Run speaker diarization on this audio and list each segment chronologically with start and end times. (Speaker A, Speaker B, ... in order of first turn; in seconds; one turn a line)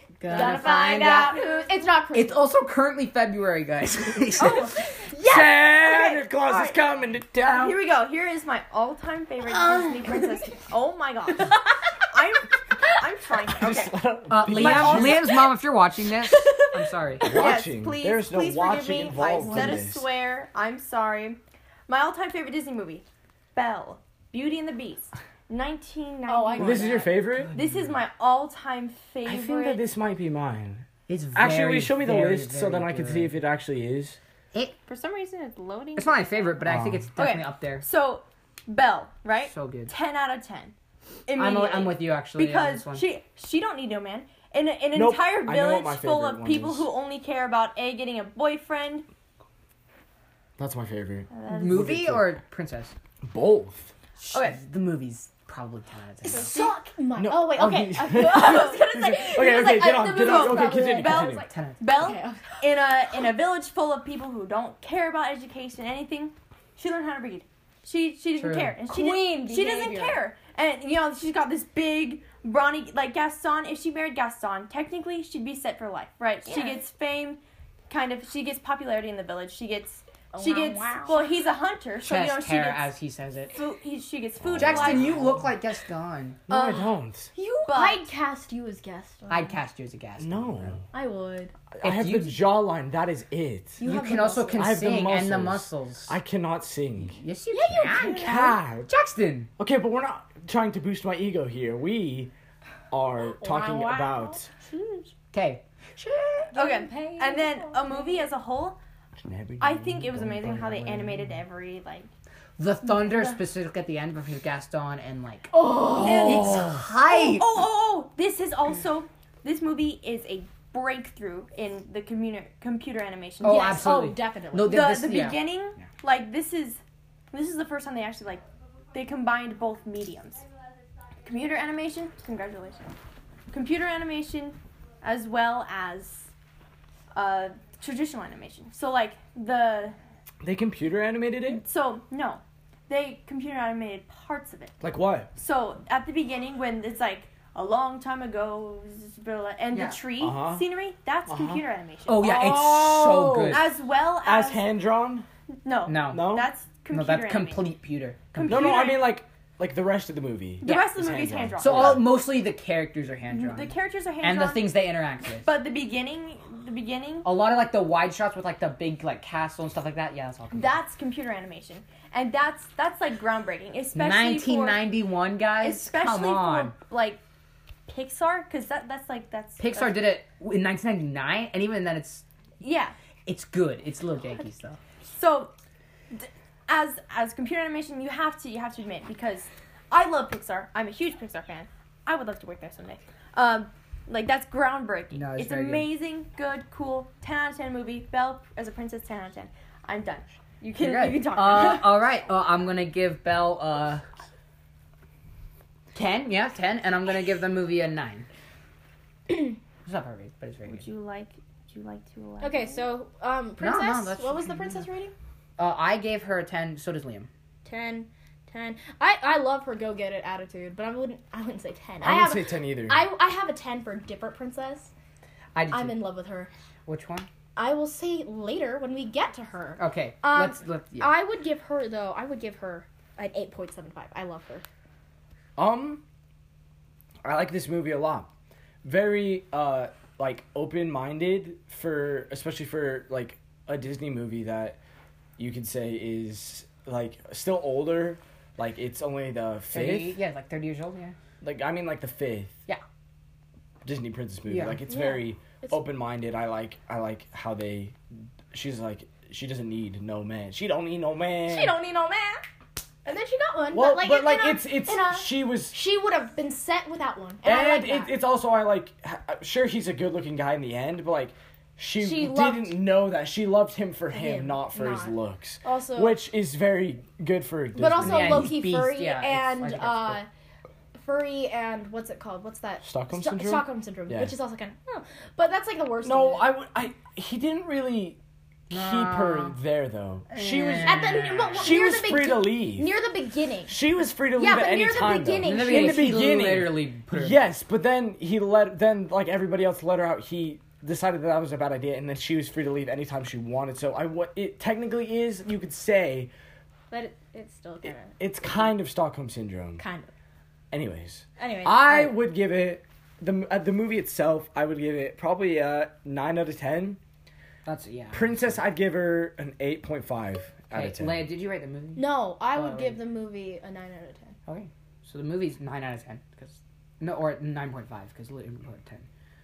Speaker A: 0.2-1.4
Speaker B: 0.2-2.5
Speaker C: 0.3-1.7
Speaker A: 2.1-4.8
Speaker B: 4.4-4.9
Speaker C: 4.4-6.8
Speaker D: 5.2-7.8
Speaker C: 7.4-13.9
Speaker B: 9.4-10.5
Speaker B: 11.3-11.7
Speaker D: 13.6-15.3
Speaker A: 14.3-17.4
Speaker C: 14.4-15.3
Speaker C: 16.3-29.8
Speaker D: 17.2-20.1
Speaker B: 26.3-27.1
Speaker D: 26.6-27.5
Speaker A: 27.3-27.9
Speaker D: 29.2-34.2
Speaker A: 31.1-33.3
Speaker C: 34.9-36.5
Speaker A: 36.0-37.9
Speaker D: 36.6-37.1
Speaker C: 37.2-40.7
Speaker A: 39.5-39.9
Speaker C: 41.3-49.1
Speaker A: 41.4-43.0
Speaker D: 44.9-46.9
Speaker D: 50.6-52.3
Speaker C: 51.3-52.0
Speaker A: 51.5-53.0
Speaker D: 53.2-53.9
Speaker A: 54.2-56.5
Speaker C: 54.3-54.6
Speaker B: 56.2-61.4
Speaker C: 56.3-56.8
Speaker D: 57.2-61.5
Speaker C: 58.1-82.9
Speaker A: 61.5-61.9
Speaker B: 61.9-62.6
Speaker A: 68.4-68.8
Speaker B: 68.8-70.2
Speaker B: 76.5-76.8
Speaker B: 80.3-81.5
Speaker A: 82.0-83.6
Speaker C: 83.5-85.5
Speaker D: 84.4-85.4
Speaker A: 84.5-86.4
Speaker D: 86.5-87.3
Speaker C: 86.5-86.9
Speaker B: 87.4-89.6
Speaker C: 87.6-88.1
Speaker A: 89.3-90.8
Speaker D: 90.2-90.8
Speaker B: 90.9-91.5
Speaker D: 91.7-93.8
Speaker A: 91.8-92.5
Speaker B: 93.8-94.7
Speaker A: 93.8-96.2
Speaker D: 94.5-97.2
Speaker A: 97.1-99.5
Speaker B: 97.5-98.6
Speaker D: 98.0-98.9
Speaker D: 99.6-102.3
Speaker D: 102.9-104.5
Speaker B: 103.4-105.1
Speaker A: 105.3-105.6
Speaker B: 106.0-108.2
Speaker C: 106.5-108.8
Speaker D: 109.2-111.4
Speaker C: 109.6-112.1
Speaker A: 112.6-117.6
Speaker B: 115.5-116.6
Speaker C: 116.0-123.8
Speaker D: 116.0-116.9
Speaker A: 123.4-125.5
Speaker B: 123.4-125.1
Speaker C: 124.6-126.8
Speaker C: 127.3-130.4
Speaker C: 131.2-132.9
Speaker C: 133.5-136.3
Speaker C: 137.1-139.9
Speaker D: 140.4-141.6
Speaker C: 141.6-144.8
Speaker D: 144.8-145.3
Speaker C: 145.3-152.5
Speaker A: 149.7-150.0
Speaker D: 150.2-150.6
Speaker D: 151.3-151.6
Speaker A: 152.1-153.7
Speaker D: 152.2-153.7
Speaker C: 153.5-154.7
Speaker D: 154.2-155.3
Speaker C: 155.6-157.7
Speaker A: 155.9-156.4
Speaker D: 156.1-156.5
Speaker A: 156.9-158.8
Speaker C: 158.3-159.2
Speaker D: 158.5-162.1
Speaker C: 160.6-162.1
Speaker A: 161.6-165.5
Speaker C: 163.3-164.8
Speaker C: 165.4-167.3
Speaker A: 167.2-170.8
Speaker C: 170.5-174.9
Speaker A: 173.9-176.7
Speaker C: 175.6-177.2
Speaker C: 177.9-180.0
Speaker A: 179.6-182.2
Speaker C: 182.6-182.9
Speaker A: 183.3-184.8
Speaker C: 185.1-185.5
Speaker C: 186.1-202.1
Speaker A: 195.1-195.9
Speaker A: 200.8-204.1
Speaker A: 205.9-208.3
Speaker A: 209.8-210.9
Speaker C: 210.7-212.9
Speaker B: 212.4-215.1
Speaker A: 213.6-214.8
Speaker A: 215.6-217.3
Speaker B: 217.6-224.9
Speaker D: 222.0-223.1
Speaker A: 225.6-226.0
Speaker B: 225.7-226.5
Speaker A: 226.9-227.3
Speaker B: 227.6-234.6
Speaker A: 229.8-231.1
Speaker D: 235.6-236.0
Speaker D: 237.2-238.3
Speaker D: 238.8-244.8
Speaker D: 245.4-250.2
Speaker A: 249.7-251.1
Speaker D: 251.4-252.6
Speaker D: 253.8-258.0
Speaker A: 254.5-254.8
Speaker B: 254.9-255.8
Speaker D: 258.5-261.8
Speaker B: 261.5-262.4
Speaker B: 263.1-268.1
Speaker D: 263.7-265.8
Speaker D: 267.4-278.5
Speaker B: 272.0-272.8
Speaker B: 274.1-276.2
Speaker B: 277.8-280.3
Speaker A: 278.0-280.2
Speaker B: 280.9-286.5
Speaker D: 282.8-284.4
Speaker D: 286.0-288.2
Speaker A: 288.7-289.6
Speaker D: 288.7-291.0
Speaker A: 290.3-291.7
Speaker B: 290.8-293.8
Speaker D: 291.6-292.9
Speaker D: 293.7-306.3
Speaker B: 294.4-296.4
Speaker A: 295.4-297.4
Speaker B: 306.9-308.2
Speaker D: 308.2-309.8
Speaker B: 309.8-310.1
Speaker D: 310.7-317.0
Speaker B: 311.4-312.1
Speaker A: 317.6-318.6
Speaker D: 318.1-321.3
Speaker A: 320.7-323.0
Speaker B: 321.9-324.4
Speaker A: 324.4-329.1